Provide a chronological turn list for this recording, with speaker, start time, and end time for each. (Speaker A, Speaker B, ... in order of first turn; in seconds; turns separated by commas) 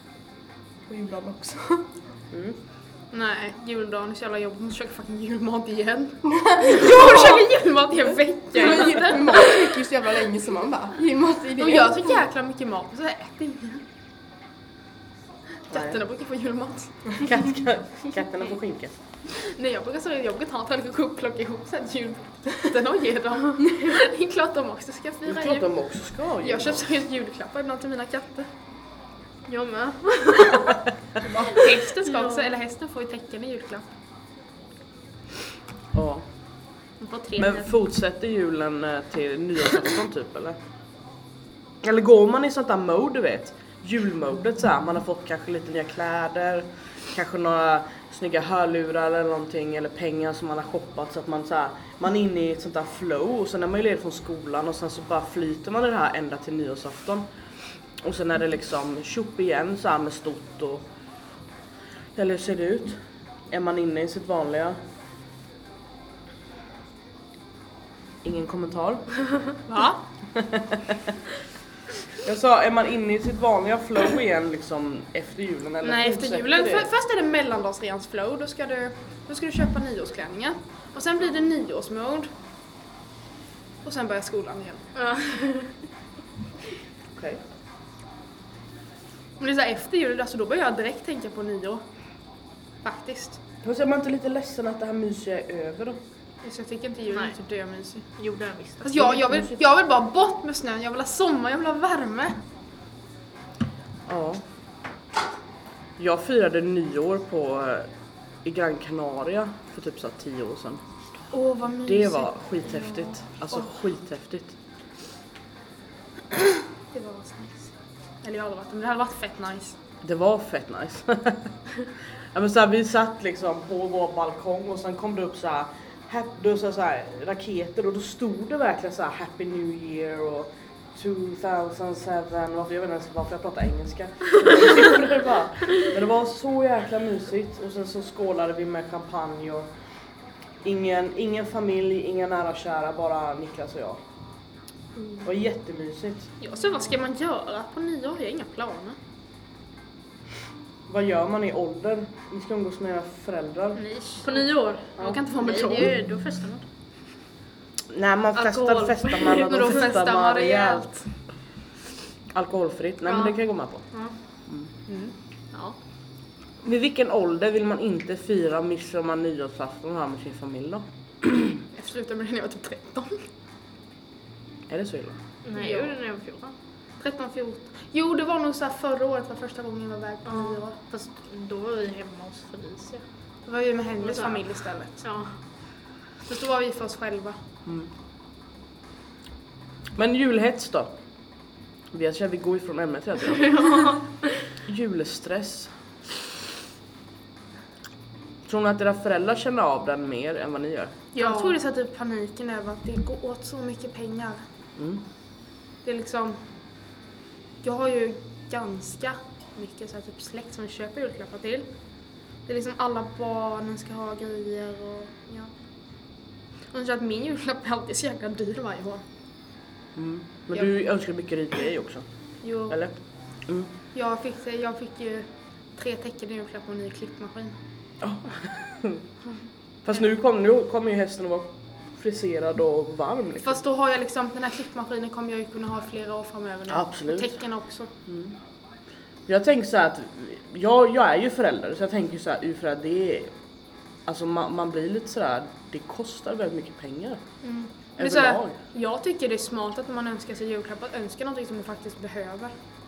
Speaker A: 0.9-1.9, Speaker B: 2.3-2.6, Speaker C: 3.1-9.5, Speaker A: 8.5-12.2, Speaker C: 11.6-13.8, Speaker C: 15.7-17.1, Speaker B: 15.7-15.9, Speaker B: 17.1-18.9, Speaker C: 19.3-25.7, Speaker B: 25.2-26.9, Speaker C: 26.4-28.5, Speaker D: 29.5-30.8, Speaker A: 31.2-31.5, Speaker C: 31.4-33.9, Speaker D: 31.6-32.4, Speaker B: 35.9-36.2, Speaker C: 37.0-37.7, Speaker B: 37.4-40.5, Speaker B: 41.8-57.2, Speaker B: 58.0-60.8, Speaker B: 62.1-63.0, Speaker B: 63.5-64.8, Speaker B: 68.2-69.1, Speaker C: 69.7-70.0, Speaker B: 70.3-71.0, Speaker B: 72.2-76.9, Speaker C: 75.8-82.3, Speaker C: 83.8-84.8, Speaker D: 85.0-85.7, Speaker B: 87.1-87.4, Speaker C: 89.4-91.8, Speaker C: 92.8-93.4, Speaker B: 93.6-96.0, Speaker C: 96.4-98.0, Speaker D: 98.2-98.9, Speaker C: 98.8-102.4, Speaker B: 99.0-99.6, Speaker B: 104.1-104.4, Speaker B: 106.0-107.9, Speaker B: 108.4-110.8, Speaker C: 111.3-113.7, Speaker B: 111.8-114.5, Speaker C: 116.9-119.8, Speaker B: 120.0-121.5, Speaker B: 122.3-139.7, Speaker B: 140.6-144.0, Speaker B: 145.2-146.3, Speaker C: 146.4-149.0, Speaker B: 150.9-153.8, Speaker C: 153.7-156.0, Speaker D: 154.2-156.6, Speaker B: 157.9-160.9, Speaker C: 158.3-161.1, Speaker D: 159.1-159.7, Speaker B: 162.3-163.8, Speaker C: 164.8-165.7, Speaker B: 166.6-171.6, Speaker C: 171.7-173.2, Speaker B: 174.7-175.2, Speaker D: 175.4-176.5, Speaker C: 175.5-175.9, Speaker C: 177.0-180.8, Speaker D: 180.2-183.0, Speaker C: 183.4-185.0, Speaker D: 184.0-184.5, Speaker D: 185.0-185.3, Speaker C: 186.2-187.4, Speaker B: 190.0-190.9, Speaker B: 191.9-193.6, Speaker D: 193.3-194.5, Speaker B: 194.6-195.7, Speaker B: 198.4-200.9, Speaker C: 201.1-204.4, Speaker D: 201.2-201.6, Speaker B: 204.8-205.0, Speaker C: 205.8-206.4, Speaker C: 207.6-211.7, Speaker C: 212.5-215.5, Speaker C: 216.7-219.0, Speaker B: 219.9-222.0, Speaker C: 222.4-222.8, Speaker C: 223.9-227.6, Speaker B: 228.0-229.0, Speaker B: 229.8-233.6, Speaker C: 233.4-237.9, Speaker B: 236.7-237.3, Speaker B: 238.1-238.3, Speaker B: 239.3-243.3, Speaker B: 244.1-247.2, Speaker C: 247.4-252.5, Speaker B: 248.0-248.6